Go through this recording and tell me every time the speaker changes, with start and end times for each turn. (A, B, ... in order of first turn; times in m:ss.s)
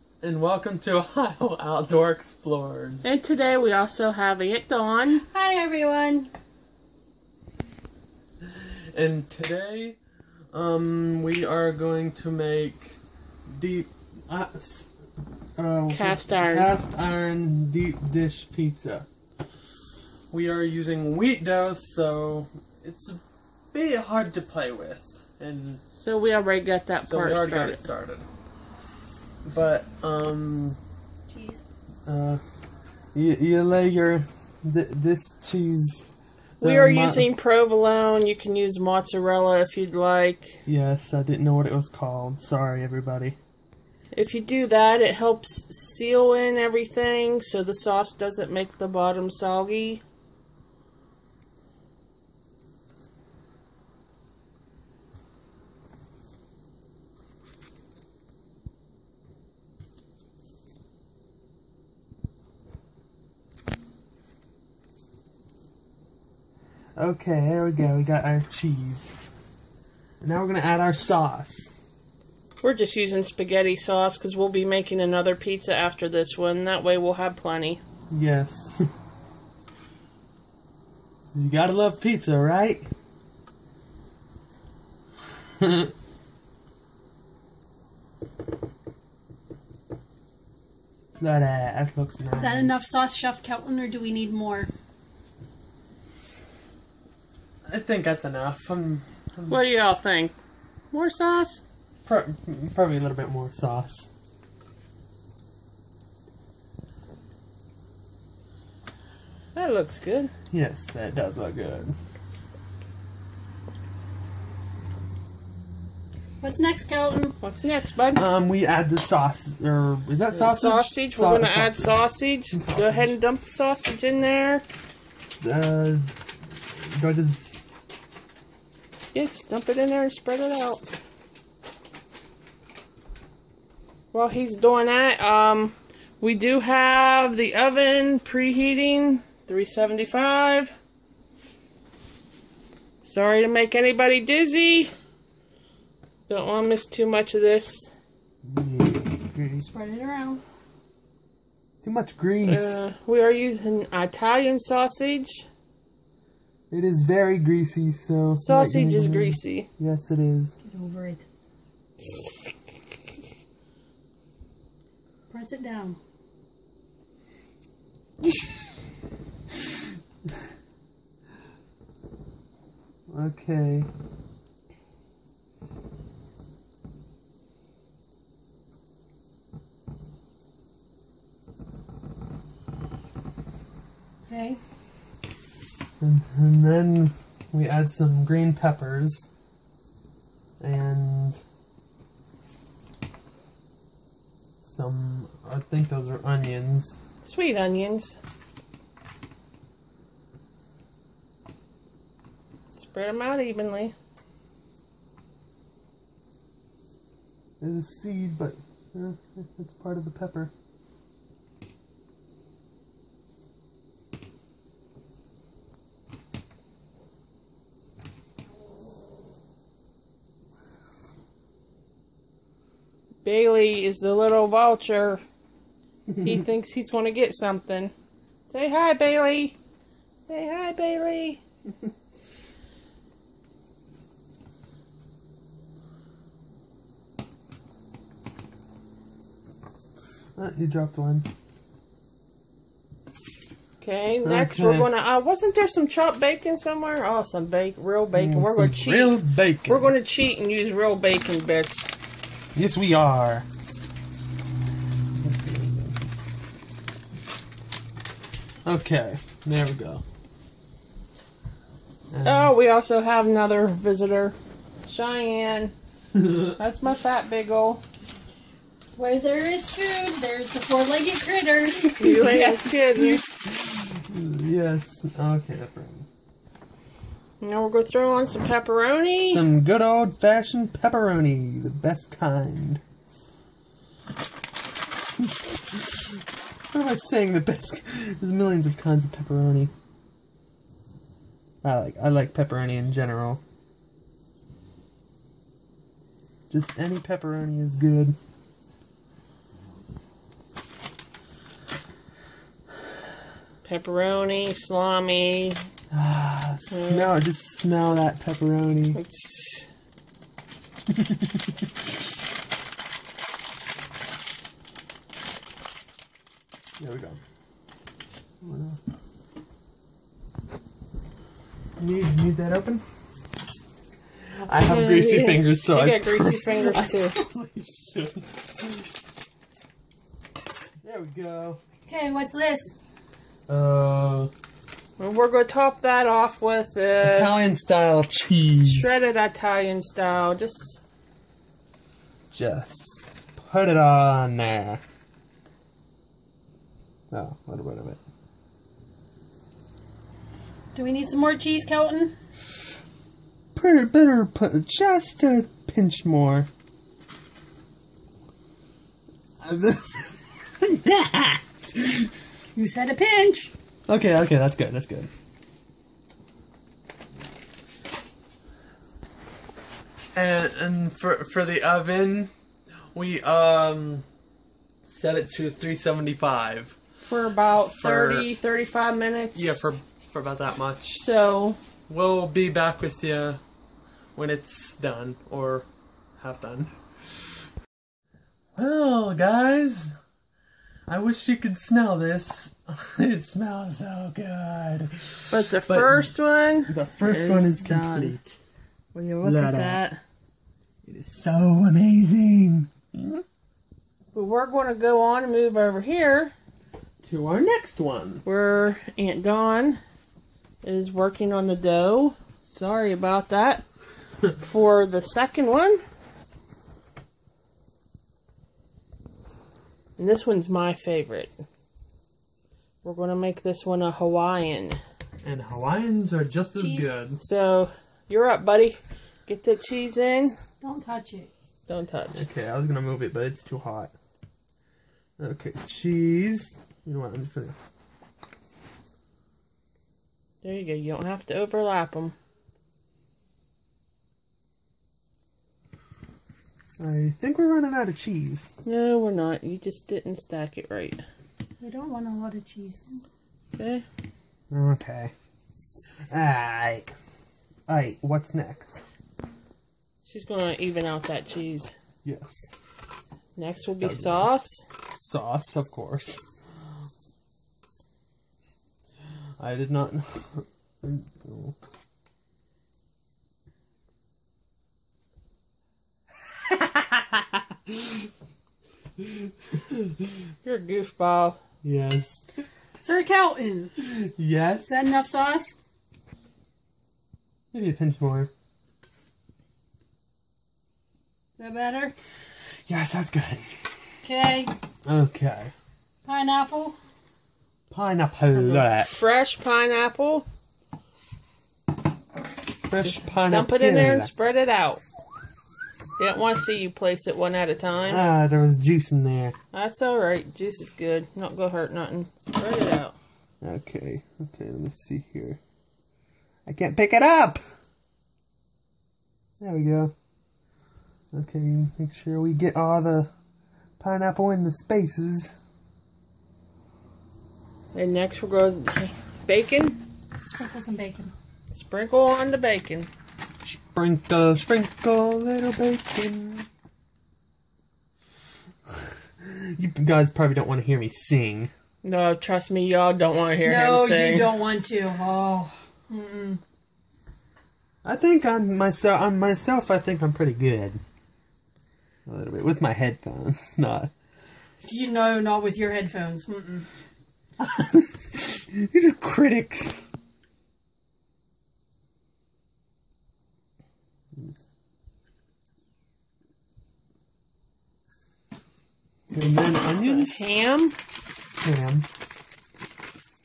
0:00.2-0:03.1 A
0:03.0-0:05.3 B
0:05.2-0:06.3 C
0:08.4-0:10.0 A
0:10.5-0:14.9 A
0:15.6-0:19.1 A
0:15.9-0:16.7 B
0:20.3-0:23.2 A
0:23.7-0:25.8 A
0:26.0-0:27.9 B
0:27.0-0:28.3 A
0:29.4-0:30.8 A
0:31.3-0:31.6 C
0:32.0-0:32.4 A
0:33.1-0:37.3 A
0:36.6-0:40.6 B
0:40.7-0:43.4 A
0:44.1-0:50.0 B
1:07.0-1:09.2 A
1:10.2-1:11.8 A
1:12.6-1:17.8 B
1:18.1-1:18.9 A
1:21.3-1:22.9 A
1:25.6-1:25.9 A
1:31.2-1:32.9 A
1:32.3-1:34.7 C
1:37.7-1:39.6 A
1:39.5-1:40.4 B
1:40.9-1:41.6 B
1:42.0-1:44.1 A
1:49.5-1:50.3 B
1:50.5-1:51.9 A
1:56.4-1:57.3 C
1:57.4-1:58.2 B
1:58.2-2:03.1 A
2:00.3-2:04.6 B
2:05.4-2:06.1 A
2:06.8-2:07.7 A
2:09.1-2:10.8 B
2:14.1-2:20.7 B
2:23.0-2:24.9 B
2:26.3-2:27.9 B
2:28.4-2:29.7 A
2:29.6-2:30.4 C
2:31.8-2:32.8 A
2:32.4-2:35.4 B
2:36.7-2:40.6 A
2:38.4-2:39.7 B
2:40.6-2:41.2 C
2:42.0-2:42.9 B
2:45.3-2:46.0 C
2:53.1-2:53.9 A
3:04.3-3:04.6 C
3:06.0-3:09.3 A
3:10.6-3:11.4 A
3:14.6-3:17.0 A
3:17.2-3:18.2 B
3:22.8-3:23.9 B
3:27.6-3:30.5 A
3:43.2-3:45.2 B
3:46.2-3:47.9 B
3:48.5-3:49.6 B
3:50.3-3:51.4 B
4:00.4-4:01.2 A
4:03.8-4:11.9 B
4:04.2-4:04.9 A
4:08.1-4:10.0 A
4:12.5-4:13.5 A
4:15.2-4:16.0 A
4:18.6-4:20.0 A
4:22.1-4:22.5 A
4:22.2-4:25.7 B
4:26.4-4:27.8 B
4:29.0-4:32.0 C
4:32.0-4:33.2 B
4:32.0-4:36.1 A
4:37.4-4:39.4 B
4:39.2-4:42.8 A
4:45.5-4:46.0 A
4:46.7-4:49.7 A
4:51.6-4:53.4 A
4:56.5-4:58.2 A
5:03.6-5:05.6 B
5:05.9-5:09.0 A
5:06.7-5:07.1 B
5:08.9-5:09.7 B
5:10.9-5:11.4 A
5:16.8-5:17.2 A
5:18.4-5:18.8 A
5:21.8-5:22.8 A
5:24.5-5:28.9 A
5:24.6-5:27.2 B
5:30.8-5:31.6 A
5:31.9-5:32.7 C
5:33.5-5:34.3 A
5:35.0-5:37.4 B
5:37.0-5:39.0 A
5:38.6-5:40.8 B
5:42.3-5:44.8 A
5:47.1-5:48.0 A
5:50.7-5:52.1 C
5:53.6-5:56.5 A
5:59.4-6:02.1 A
6:02.6-6:03.5 C
6:03.9-6:05.1 A
6:10.1-6:12.3 A
6:12.9-6:14.1 A
6:14.9-6:16.8 A
6:17.0-6:19.7 B
6:17.7-6:18.3 A
6:19.3-6:21.0 A
6:21.0-6:21.6 B
6:21.9-6:23.4 A
6:24.2-6:26.8 A
6:28.6-6:29.9 A
6:30.9-6:36.1 A
6:35.3-6:38.2 B
6:36.7-6:38.4 A
6:38.9-6:40.0 B
6:39.2-6:39.8 A
6:40.8-6:43.2 A
6:44.1-6:46.3 B
6:47.0-6:48.2 A
6:48.2-6:49.8 B
6:50.6-6:53.6 B
6:54.3-6:55.8 B
7:00.0-7:01.3 B
7:02.8-7:04.8 B
7:05.2-7:07.2 A
7:06.6-7:06.9 C
7:07.2-7:10.4 B
7:10.6-7:11.3 C
7:11.7-7:12.3 B
7:12.1-7:13.9 A
7:15.2-7:17.6 A
7:20.4-7:22.2 B
7:26.8-7:28.5 A
7:28.6-7:31.0 B
7:31.6-7:33.0 C
7:33.6-7:33.8 B
7:34.5-7:35.1 A
7:36.1-7:36.9 A
7:37.7-7:38.8 A
7:40.1-7:41.7 B
7:42.0-7:42.5 A
7:43.4-7:44.6 B
7:43.8-7:44.4 A
7:45.0-7:46.2 A
7:49.4-7:51.6 A
7:56.3-7:58.1 A
7:59.0-8:00.0 A
8:00.4-8:01.4 B
8:01.6-8:02.2 A
8:02.8-8:03.7 C
8:03.8-8:05.0 A
8:04.6-8:05.5 C
8:07.5-8:08.3 A
8:11.4-8:12.0 C
8:12.7-8:13.4 A
8:14.0-8:14.5 C
8:14.8-8:15.5 A
8:16.0-8:16.8 C
8:17.7-8:18.9 A
8:18.3-8:20.2 B
8:22.7-8:24.1 A
8:22.8-8:24.8 B
8:26.0-8:28.0 B
8:27.9-8:29.4 A
8:29.5-8:33.0 B
8:33.4-8:35.4 A
8:36.5-8:37.4 A
8:39.4-8:39.9 A
8:41.1-8:43.1 A
8:43.8-8:45.3 A
8:47.8-8:49.8 B
8:50.2-8:51.1 C
8:51.5-8:52.9 B
8:53.4-8:56.5 A
8:58.7-9:01.5 A
9:01.8-9:04.4 B
9:03.4-9:06.4 C
9:07.8-9:10.8 A
9:12.1-9:13.9 A
9:14.6-9:16.7 C
9:17.4-9:19.9 A
9:24.1-9:24.4 A
9:29.1-9:30.2 A
9:29.7-9:30.8 B
9:31.4-9:31.9 A